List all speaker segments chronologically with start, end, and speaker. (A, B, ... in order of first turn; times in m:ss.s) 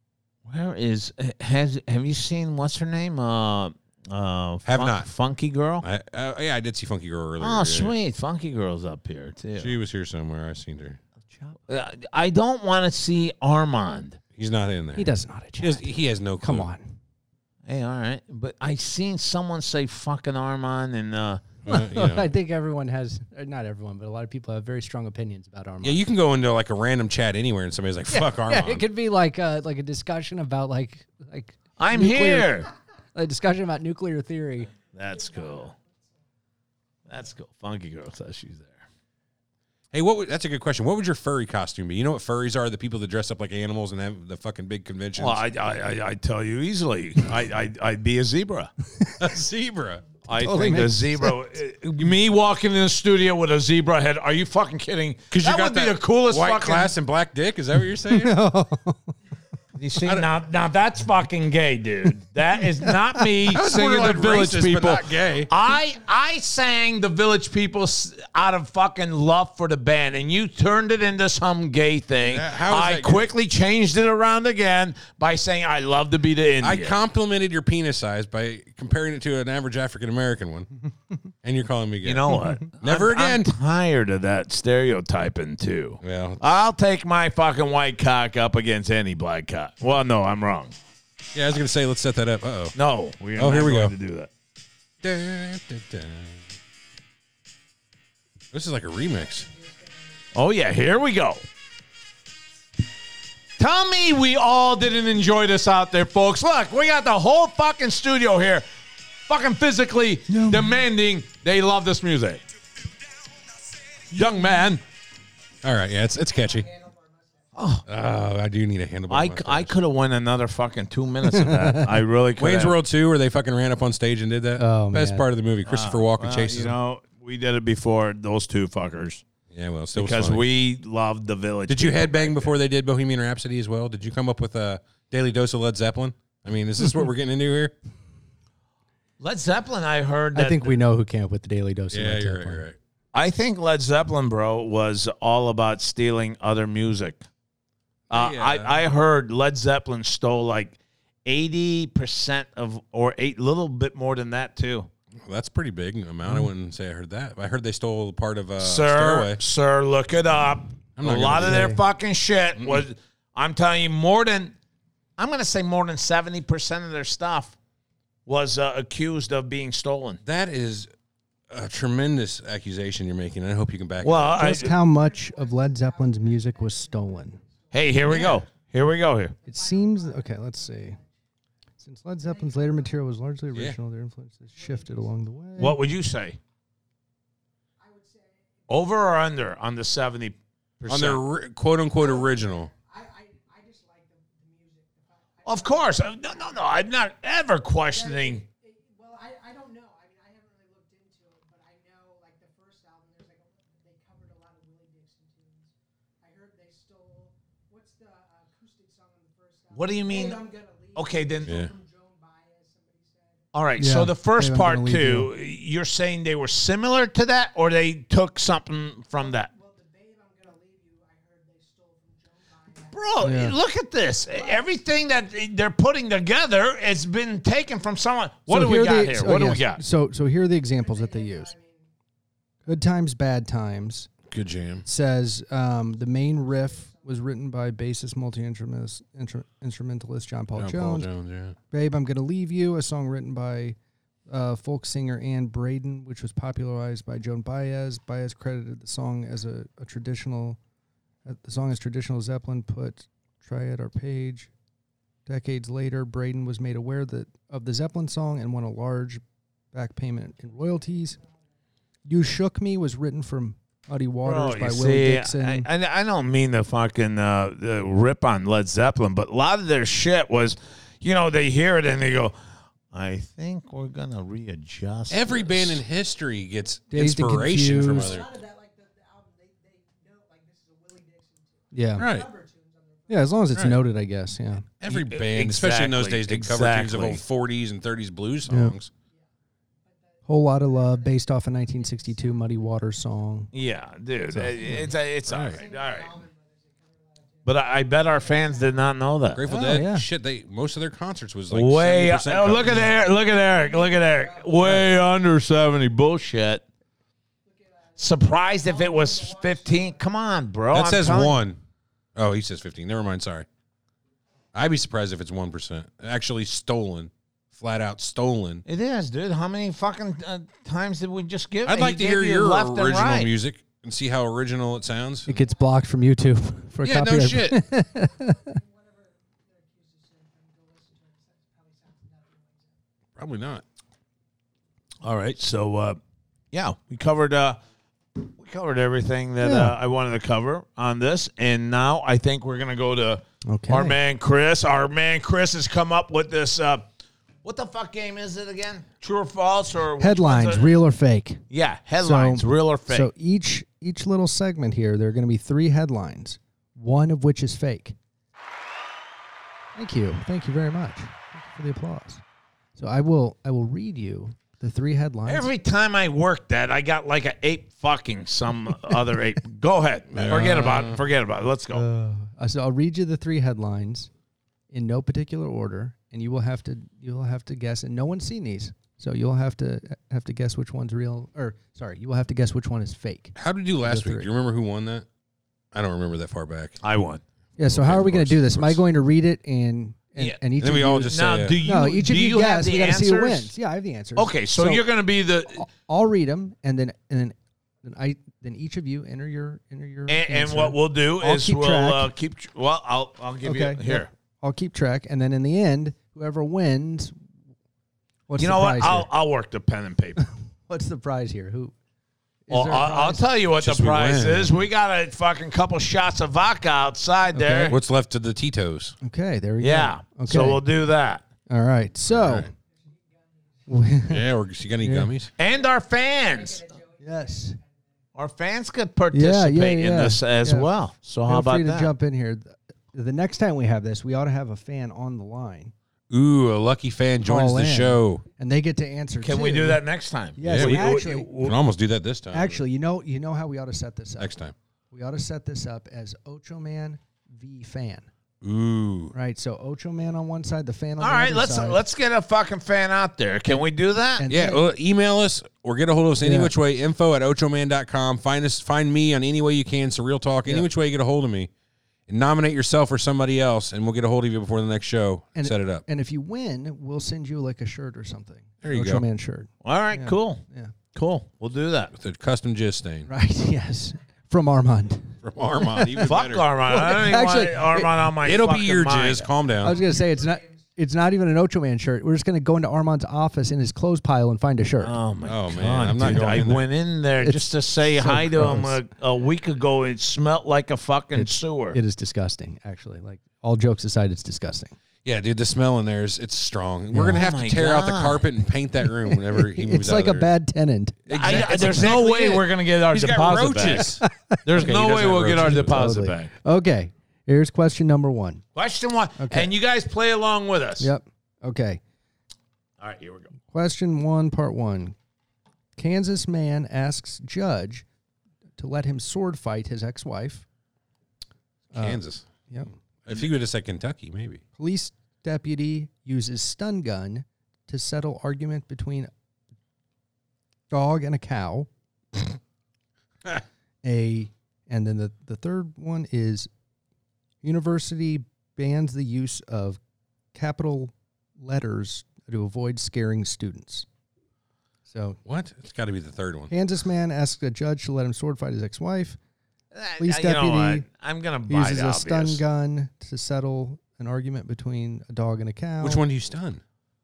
0:00.4-0:05.8 A
0:04.6-0:05.1 B
0:05.8-0:08.0 B
0:07.4-0:09.7 A
0:09.6-0:11.0 B
0:11.3-0:11.6 C
0:11.7-0:14.2 A
0:14.4-0:16.7 B
0:15.0-0:16.9 C
0:17.6-0:21.5 A
0:21.6-0:22.3 B
0:21.7-0:26.0 C
0:25.8-0:28.8 B
0:28.1-0:34.7 C
0:31.8-0:32.7 A
0:34.9-0:35.7 A
0:35.0-0:35.8 D
0:37.1-0:38.8 A
0:39.9-0:45.4 B
0:45.2-0:48.7 A
0:49.2-0:50.0 B
0:50.3-0:56.9 A
0:50.3-0:51.3 C
0:55.3-0:58.4 B
0:58.1-0:59.1 C
0:59.8-1:17.0 A
1:03.5-1:05.5 B
1:12.2-1:13.3 B
1:16.6-1:20.7 B
1:21.4-1:23.5 B
1:22.0-1:30.7 A
1:26.0-1:26.4 B
1:31.3-1:32.7 B
1:32.8-1:34.3 A
1:33.4-1:33.9 B
1:35.0-1:36.4 B
1:38.5-1:39.5 B
1:39.2-1:40.2 D
1:40.3-1:41.4 A
1:43.6-1:48.6 A
1:49.3-1:52.4 A
1:50.3-1:50.8 C
1:54.1-1:54.8 A
1:55.6-1:56.7 B
1:56.2-1:57.5 D
1:57.6-1:57.8 A
1:57.9-1:59.8 B
1:59.1-2:02.8 A
2:01.3-2:01.8 C
2:02.4-2:06.8 B
2:04.6-2:05.3 C
2:05.6-2:09.2 A
2:09.5-2:10.4 B
2:10.0-2:12.5 A
2:11.7-2:17.7 B
2:19.2-2:20.8 A
2:20.3-2:22.6 C
2:21.9-2:22.8 B
2:23.1-2:27.2 A
2:28.1-2:28.8 B
2:28.1-2:34.9 A
2:35.2-2:39.4 B
2:38.6-2:44.5 A
2:41.0-2:41.7 B
2:41.4-2:41.8 C
2:42.6-2:42.8 B
2:45.2-2:47.6 A
2:48.2-2:50.2 A
2:50.2-2:50.9 B
2:51.5-2:54.3 B
2:54.0-2:54.7 A
2:54.0-2:58.6 D
2:54.4-2:57.4 C
2:57.7-2:59.3 A
2:58.1-2:58.4 B
2:59.4-3:01.0 D
2:59.4-3:01.0 C
3:01.8-3:05.8 C
3:02.2-3:03.4 D
3:04.5-3:05.2 D
3:05.6-3:06.4 A
3:07.8-3:08.9 D
3:08.7-3:11.2 A
3:10.9-3:12.7 B
3:12.0-3:16.9 D
3:15.4-3:18.4 A
3:17.9-3:33.4 D
3:29.7-3:30.4 A
3:30.9-3:31.5 A
3:31.4-3:31.7 B
3:33.5-3:39.5 A
3:33.8-3:35.3 C
3:39.1-3:43.4 D
3:42.9-3:49.8 A
3:43.2-3:43.5 C
3:44.2-3:44.7 D
3:48.5-3:51.5 C
3:50.2-3:51.9 D
3:52.6-3:54.1 C
3:54.3-3:54.8 B
3:54.8-4:01.1 C
3:55.8-3:57.2 D
4:00.5-4:01.6 B
4:01.7-4:03.8 C
4:04.3-4:10.6 C
4:11.2-4:14.5 C
4:15.3-4:19.2 C
4:19.7-4:21.2 C
4:20.6-4:21.2 D
4:22.1-4:25.7 C
4:24.2-4:32.3 A
4:32.9-4:35.8 A
4:35.1-4:38.3 B
4:36.9-4:38.2 C
4:37.9-4:43.6 D
4:41.7-4:42.1 C
4:42.0-4:42.3 B
4:43.1-4:44.6 C
4:43.5-4:43.8 B
4:44.8-4:48.9 B
4:44.9-4:47.2 A
4:48.5-4:48.7 C
4:49.8-4:53.3 D
4:50.2-4:53.5 C
4:53.5-4:56.1 A
4:54.3-4:54.9 C
4:54.6-4:59.1 D
4:55.2-4:55.6 B
4:57.4-4:59.7 A
4:59.3-5:02.9 B
4:59.5-5:00.0 C
5:01.5-5:06.6 A
5:02.8-5:04.9 D
5:07.4-5:10.2 D
5:08.0-5:11.4 A
5:10.7-5:11.6 B
5:12.1-5:13.4 B
5:14.5-5:18.6 B
5:18.6-5:23.3 A
5:21.6-5:25.3 B
5:25.2-5:28.6 C
5:25.3-5:26.1 D
5:26.8-5:27.6 B
5:28.0-5:32.8 D
5:33.2-5:33.6 B
5:35.0-5:36.0 A
5:36.5-5:37.6 A
5:38.2-5:46.8 A
5:39.4-5:39.7 C
5:43.4-5:44.0 C
5:47.4-5:50.8 A
5:50.0-5:51.4 C
5:51.5-5:53.1 A
5:52.0-5:58.0 C
5:59.8-6:02.2 C
6:02.8-6:05.5 C
6:05.3-6:11.8 A
6:10.1-6:10.8 C
6:10.1-6:11.0 B
6:11.7-6:14.1 C
6:14.7-6:24.3 C
6:23.3-6:25.0 B
6:25.7-6:26.8 B
6:26.8-6:27.2 A
6:27.6-6:31.1 C
6:27.6-6:28.8 B
6:30.6-6:31.6 B
6:31.1-6:33.5 A
6:31.6-6:34.8 C
6:34.2-6:35.6 A
6:35.5-6:42.1 C
6:40.1-6:44.1 A
6:43.4-6:47.1 C
6:48.3-6:49.1 C
6:48.4-6:50.2 A
6:50.7-6:51.7 C
6:52.5-6:53.2 C
6:52.5-6:57.8 A
6:53.6-6:54.6 B
6:57.3-6:57.7 C
6:57.7-6:58.9 B
6:59.0-7:00.6 C
6:59.6-7:01.2 A
7:01.5-7:02.5 C
7:02.1-7:02.5 B
7:02.7-7:04.0 D
7:03.7-7:04.2 C
7:04.1-7:05.3 B
7:04.8-7:05.1 C
7:05.4-7:06.6 A
7:05.4-7:08.0 D
7:07.0-7:07.6 C
7:08.2-7:11.9 A
7:09.1-7:10.7 C
7:11.2-7:15.7 C
7:16.1-7:18.2 B
7:17.2-7:19.8 C
7:19.2-7:21.6 A
7:20.4-7:21.3 C
7:20.4-7:20.8 B
7:21.4-7:22.6 B
7:22.3-7:24.4 C
7:24.2-7:24.5 B
7:24.9-7:28.1 C
7:28.4-7:29.1 B
7:29.1-7:31.8 C
7:31.0-7:34.2 A
7:34.2-7:34.6 C
7:34.3-7:41.5 B
7:36.2-7:36.5 C
7:42.1-7:45.8 B
7:45.3-7:50.7 C
7:48.6-7:49.0 B
7:49.6-7:50.4 A
7:50.9-7:51.9 A
7:51.9-7:53.1 B
7:53.1-7:56.1 C
7:55.2-7:56.5 B
7:56.0-7:59.3 A
7:56.7-7:57.9 C
7:58.2-7:59.8 B
7:59.6-8:05.0 C
7:59.6-8:00.6 D
8:04.8-8:11.8 A
8:05.2-8:06.6 B
8:07.2-8:08.8 C
8:11.1-8:14.7 C
8:15.0-8:20.3 B
8:16.9-8:17.2 C
8:17.1-8:18.2 A
8:19.0-8:22.0 C
8:21.1-8:25.8 B
8:21.1-8:23.9 A
8:23.8-8:24.4 C
8:24.4-8:26.3 A
8:25.4-8:28.4 C
8:28.5-8:30.9 A
8:29.2-8:29.5 C
8:30.8-8:31.8 C
8:32.8-8:33.3 A
8:33.5-8:34.9 C
8:35.8-8:37.8 C
8:38.6-8:40.4 C
8:41.7-8:42.7 C
8:41.7-8:42.2 B
8:43.0-8:44.4 B
8:44.6-8:49.1 C
8:50.7-8:51.7 C
8:53.8-8:56.5 C
8:57.4-8:59.8 C
9:00.3-9:03.8 C
9:04.9-9:05.2 C
9:05.2-9:06.5 B
9:06.5-9:09.2 C
9:09.7-9:12.4 A
9:10.0-9:10.8 C
9:11.5-9:16.0 C
9:15.8-9:16.6 B